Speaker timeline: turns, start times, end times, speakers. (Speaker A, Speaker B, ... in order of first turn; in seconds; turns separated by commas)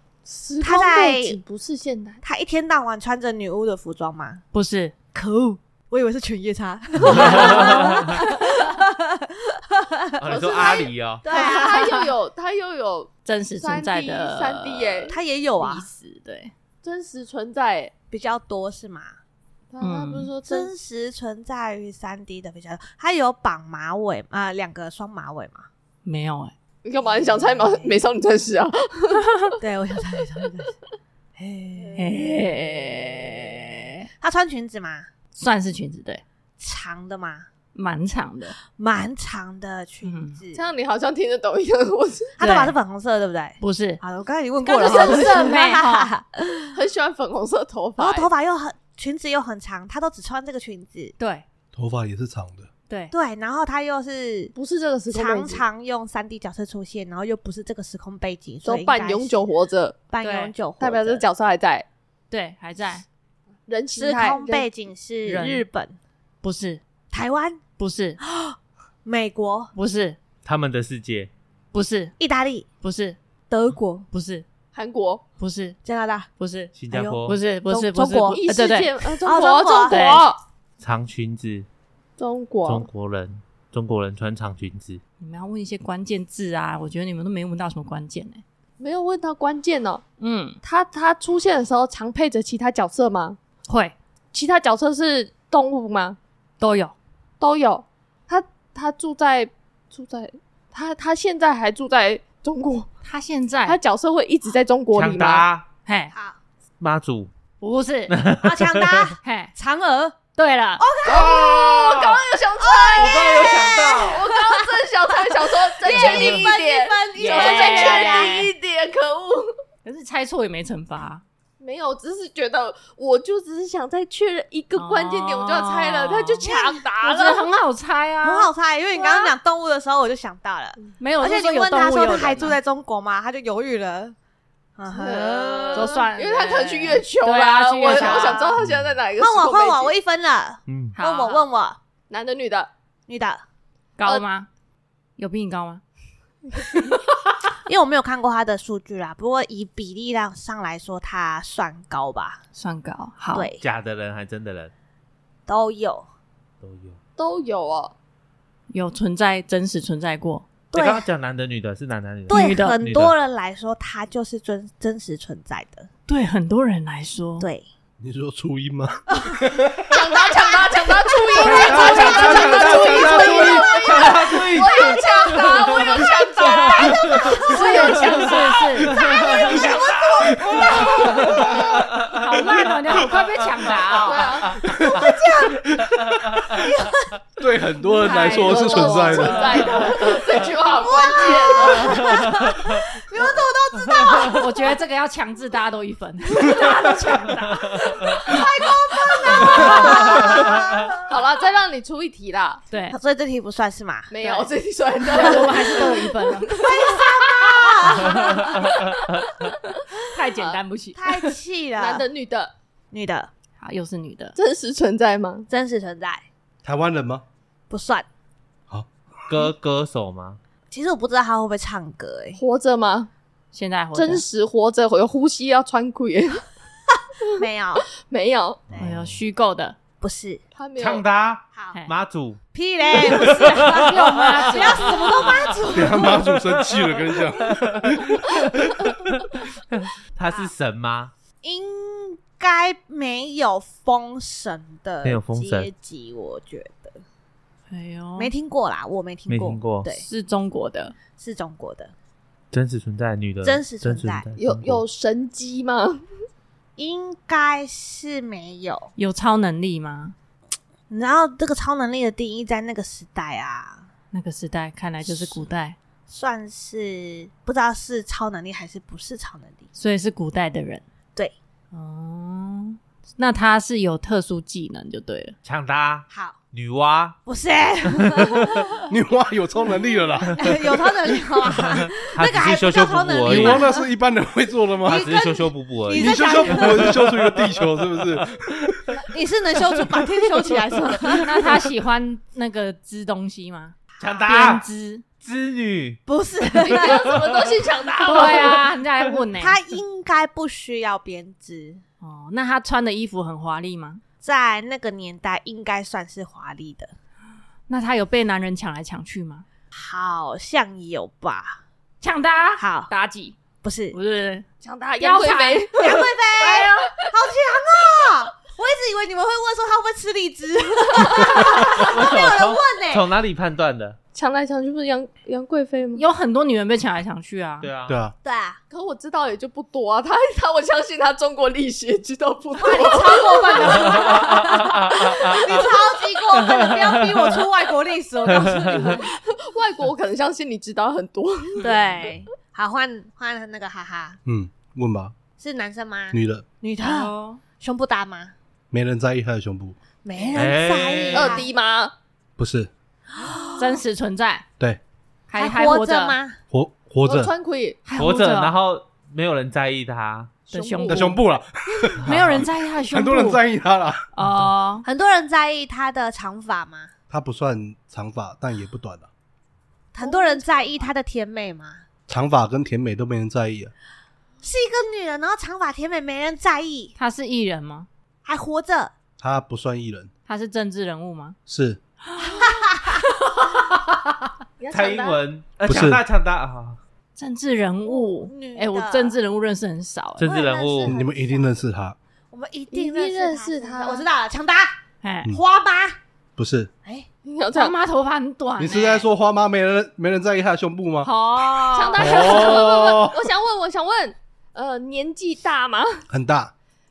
Speaker A: 0.2-2.2, Speaker B: 0.6-1.4, Speaker B: 2.2-4.4, Speaker C: 4.5-4.9, Speaker B: 5.1-12.1, Speaker D: 7.0-8.1, Speaker A: 7.1-7.8, Speaker D: 10.2-11.2, Speaker A: 10.3-15.2, Speaker C: 13.2-16.5, Speaker B: 15.1-15.9, Speaker A: 16.8-17.9, Speaker B: 18.1-19.2, Speaker A: 19.7-20.7, Speaker C: 19.8-20.3, Speaker B: 20.5-25.7, Speaker C: 26.0-26.5, Speaker A: 26.8-29.2, Speaker B: 27.1-27.9, Speaker C: 29.1-29.5, Speaker B: 29.6-30.7, Speaker B: 31.4-32.2, Speaker A: 31.8-33.0, Speaker C: 32.0-34.0, Speaker B: 34.2-35.1, Speaker C: 35.3-36.2, Speaker B: 36.6-37.5, Speaker C: 37.7-38.5, Speaker B: 38.7-40.6, Speaker C: 40.0-40.4, Speaker A: 40.5-42.4, Speaker B: 42.4-46.8, Speaker C: 42.4-42.8, Speaker C: 43.6-44.0, Speaker A: 44.6-45.6, Speaker C: 44.8-46.1, Speaker A: 46.7-48.3, Speaker B: 48.0-51.1, Speaker C: 51.2-51.4, Speaker E: 51.7-52.7, Speaker C: 52.9-53.1, Speaker B: 53.1-54.5, Speaker A: 54.5-55.6, Speaker B: 55.1-59.4, Speaker A: 58.6-60.0, Speaker B: 60.1-61.2, Speaker C: 60.2-60.5, Speaker A: 60.8-61.9, Speaker C: 62.3-63.0, Speaker A: 63.7-64.7, Speaker B: 64.0-66.0, Speaker C: 65.2-65.6, Speaker C: 66.4-66.8, Speaker B: 67.1-67.6, Speaker C: 67.8-68.2, Speaker B: 68.2-69.7, Speaker C: 69.7-70.2, Speaker D: 70.4-71.3, Speaker C: 71.7-72.1, Speaker B: 72.2-72.7, Speaker C: 72.8-73.2, Speaker B: 73.5-74.0, Speaker C: 74.1-74.4, Speaker A: 74.7-75.2, Speaker C: 75.4-75.8, Speaker B: 75.8-76.3, Speaker C: 76.4-76.7, Speaker D: 76.7-77.4, Speaker B: 76.9-78.4, Speaker C: 77.2-78.9, Speaker A: 78.3-80.4, Speaker B: 79.2-80.0, Speaker C: 79.9-80.2, Speaker D: 80.8-81.7, Speaker A: 82.2-82.9, Speaker D: 82.6-85.0, Speaker C: 85.2-88.4, Speaker A: 88.8-90.0, Speaker C: 90.2-90.6, Speaker A: 90.6-93.4, Speaker C: 93.7-93.9, Speaker A: 94.3-96.2, Speaker C: 96.6-96.9, Speaker A: 97.4-102.9, Speaker C: 103.0-103.8, Speaker A: 103.7-105.5, Speaker D: 104.9-105.6, Speaker C: 105.8-106.1, Speaker B: 106.1-106.4, Speaker D: 106.8-107.3, Speaker C: 107.6-108.1, Speaker D: 108.1-109.1, Speaker B: 108.4-110.2, Speaker C: 109.2-109.5, Speaker C: 110.3-110.8, Speaker B: 110.8-111.4, Speaker D: 111.0-112.2, Speaker A: 111.1-119.5, Speaker B: 112.6-118.5, Speaker D: 113.0-114.2, Speaker C: 117.2-118.5, Speaker C: 119.8-121.2, Speaker A: 121.6-127.5, Speaker C: 124.7-126.5, Speaker B: 126.4-126.8, Speaker C: 127.0-128.5, Speaker B: 128.2-134.2, Speaker A: 129.0-129.3, Speaker C: 131.0-132.6, Speaker B: 134.8-136.0, Speaker A: 134.9-139.9, Speaker C: 135.7-138.5, Speaker B: 137.8-138.5, Speaker D: 138.6-138.9, Speaker B: 139.2-141.8, Speaker D: 140.7-140.9, Speaker C: 140.9-141.4, Speaker A: 142.1-142.7, Speaker B: 143.1-143.4, Speaker C: 144.0-144.5, Speaker C: 145.2-145.8, Speaker B: 147.7-152.4, Speaker C: 152.6-153.5, Speaker B: 153.3-153.6, Speaker D: 153.6-154.7, Speaker B: 155.5-156.1, Speaker D: 156.6-157.0, Speaker A: 157.2-157.9, Speaker C: 158.7-160.4, Speaker B: 160.7-161.0, Speaker D: 160.7-163.1, Speaker B: 162.3-165.9, Speaker C: 162.3-162.8, Speaker C: 166.1-167.5, Speaker B: 167.4-167.7, Speaker E: 168.0-169.9, Speaker A: 169.9-178.3, Speaker B: 169.9-174.3, Speaker D: 171.4-183.1, Speaker B: 175.7-178.1, Speaker C: 177.4-178.9, Speaker B: 178.9-181.5, Speaker A: 179.4-180.0, Speaker E: 180.4-181.7, Speaker C: 182.1-184.3, Speaker D: 183.7-184.8, Speaker A: 184.0-184.6, Speaker E: 184.6-186.6, Speaker B: 184.8-185.7, Speaker D: 186.3-186.7, Speaker B: 186.5-187.0, Speaker E: 187.4-189.6, Speaker C: 187.8-189.9, Speaker A: 188.1-192.2, Speaker B: 190.8-194.6, Speaker D: 191.7-192.7, Speaker D: 193.9-194.2, Speaker C: 194.3-198.4, Speaker A: 196.4-196.9, Speaker B: 198.2-201.1, Speaker A: 199.6-200.4, Speaker D: 199.6-200.9, Speaker A: 201.1-202.6, Speaker C: 202.7-203.0, Speaker B: 202.9-204.1, Speaker A: 204.1-207.2, Speaker C: 204.2-204.5, Speaker C: 205.1-206.6, Speaker B: 206.6-208.7, Speaker A: 208.0-208.8, Speaker D: 208.1-208.8, Speaker C: 210.1-211.0, Speaker A: 210.3-210.6, Speaker B: 210.9-212.1, Speaker A: 211.8-212.5, Speaker B: 212.9-213.3, Speaker C: 213.6-214.3, Speaker A: 214.3-215.5, Speaker B: 215.5-216.2, Speaker E: 216.6-217.2, Speaker B: 217.7-218.1, Speaker E: 218.7-219.5, Speaker D: 219.3-220.4, Speaker B: 220.7-222.4, Speaker A: 222.3-223.1, Speaker C: 223.5-224.2, Speaker A: 223.9-226.4, Speaker B: 227.4-227.8, Speaker A: 227.9-228.6, Speaker C: 228.7-229.8, Speaker D: 228.8-229.2, Speaker B: 230.0-230.4, Speaker A: 230.5-231.0, Speaker D: 230.8-232.4, Speaker B: 232.5-236.2, Speaker D: 232.9-235.4, Speaker C: 233.4-235.5, Speaker E: 235.7-238.6, Speaker D: 235.9-241.1, Speaker B: 241.4-247.0, Speaker D: 245.0-245.7, Speaker C: 247.7-248.3, Speaker B: 248.2-250.1, Speaker D: 249.3-249.9, Speaker C: 250.0-250.9, Speaker B: 251.2-251.9, Speaker D: 252.5-254.8, Speaker B: 253.4-254.3, Speaker A: 254.4-256.0, Speaker B: 256.8-258.9, Speaker C: 259.0-260.1, Speaker B: 260.9-263.9, Speaker C: 264.1-265.8, Speaker B: 265.1-265.4, Speaker B: 266.1-269.6, Speaker C: 269.8-270.8, Speaker C: 271.7-275.4, Speaker D: 275.4-277.2, Speaker B: 276.1-276.4, Speaker B: 277.2-278.9, Speaker D: 277.9-278.6, Speaker E: 278.9-280.6, Speaker B: 280.3-283.9, Speaker D: 281.9-283.7, Speaker E: 283.2-285.1, Speaker B: 284.8-287.0, Speaker D: 284.9-287.3, Speaker E: 285.9-288.8, Speaker D: 288.7-288.9, Speaker B: 289.1-291.5, Speaker C: 291.2-295.0, Speaker B: 294.0-294.3, Speaker D: 294.0-294.6, Speaker D: 295.2-296.0, Speaker B: 296.1-297.2, Speaker A: 296.6-298.7, Speaker D: 296.8-297.5, Speaker C: 298.0-299.6, Speaker B: 299.4-301.8, Speaker C: 302.0-304.0, Speaker B: 304.2-306.9, Speaker C: 307.7-309.4, Speaker B: 309.7-311.6, Speaker C: 312.0-313.4, Speaker B: 312.6-312.9, Speaker B: 313.6-313.9, Speaker C: 313.9-314.4, Speaker A: 314.6-316.1, Speaker C: 315.0-316.9, Speaker B: 315.8-323.0, Speaker A: 316.6-317.0, Speaker D: 321.6-324.0, Speaker A: 324.1-326.0, Speaker C: 325.9-327.7, Speaker D: 327.6-328.0, Speaker E: 327.9-328.1, Speaker B: 328.2-328.6, Speaker A: 328.7-334.2, Speaker B: 332.6-339.1, Speaker D: 333.6-335.7, Speaker D: 336.3-337.5, Speaker D: 338.2-339.0, Speaker A: 338.4-342.1, Speaker B: 341.6-344.2, Speaker C: 341.6-341.9, Speaker E: 344.2-345.1, Speaker B: 345.4-348.3, Speaker E: 346.1-346.4, Speaker C: 346.8-347.4, Speaker E: 348.7-349.7, Speaker B: 350.0-351.5, Speaker D: 350.3-351.4, Speaker A: 351.1-351.9, Speaker E: 352.4-352.7, Speaker B: 353.1-353.8, Speaker C: 353.6-354.4, Speaker C: 355.3-356.2, Speaker B: 355.4-356.4, Speaker E: 356.5-357.3, Speaker A: 357.0-357.8, Speaker C: 357.8-358.5, Speaker D: 358.0-360.3, Speaker A: 360.5-361.2, Speaker C: 360.5-361.2, Speaker E: 360.9-364.1, Speaker C: 362.0-363.4, Speaker C: 364.1-364.8, Speaker B: 364.8-366.9, Speaker E: 367.1-369.1, Speaker B: 369.9-371.8, Speaker A: 370.0-370.9, Speaker E: 372.1-373.7, Speaker B: 374.4-376.9, Speaker C: 376.9-377.9, Speaker B: 378.2-378.9, Speaker E: 379.2-380.1, Speaker C: 380.3-381.4, Speaker E: 381.5-381.8, Speaker C: 382.1-383.0, Speaker B: 382.2-383.0, Speaker A: 384.6-385.2, Speaker D: 384.7-386.8, Speaker E: 385.6-386.0, Speaker C: 387.2-390.3, Speaker B: 387.9-389.2, Speaker D: 390.2-390.9, Speaker B: 390.2-391.4, Speaker A: 390.4-391.5, Speaker E: 390.9-391.9, Speaker B: 392.3-394.7, Speaker A: 392.7-394.1, Speaker C: 395.0-395.3, Speaker B: 395.3-396.0, Speaker E: 396.4-396.7, Speaker A: 397.2-397.8, Speaker C: 397.5-399.1, Speaker E: 398.6-401.1, Speaker C: 401.0-402.6, Speaker A: 401.7-406.0, Speaker E: 402.0-403.1, Speaker D: 402.8-403.1, Speaker E: 406.1-406.5